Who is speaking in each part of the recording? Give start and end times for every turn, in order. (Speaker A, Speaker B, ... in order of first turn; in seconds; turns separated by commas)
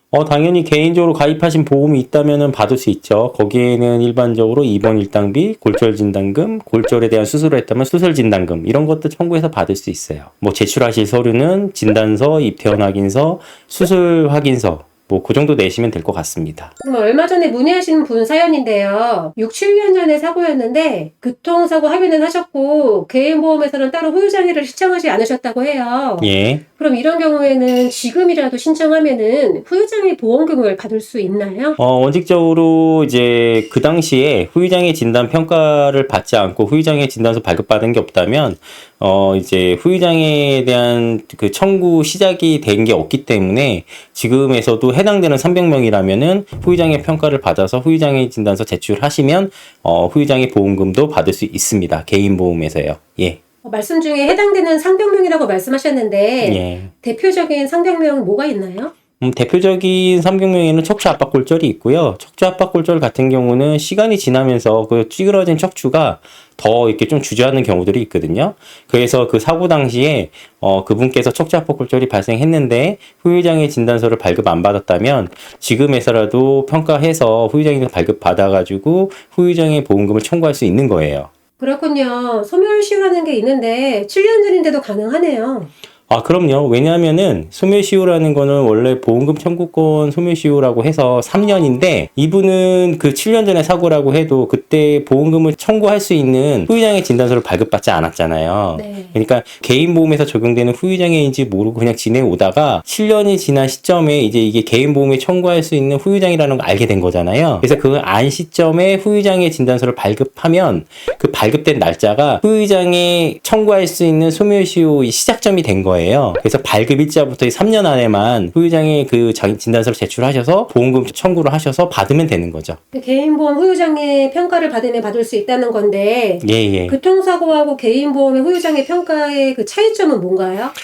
Speaker A: 0.1-16.7, Speaker B: 16.8-31.8, Speaker A: 26.2-26.6, Speaker A: 31.8-53.4, Speaker B: 53.6-58.9, Speaker A: 56.4-56.9, Speaker A: 59.2-81.3, Speaker B: 81.6-85.7, Speaker A: 86.1-122.8, Speaker B: 98.8-99.1, Speaker B: 122.9-130.7, Speaker A: 126.4-127.0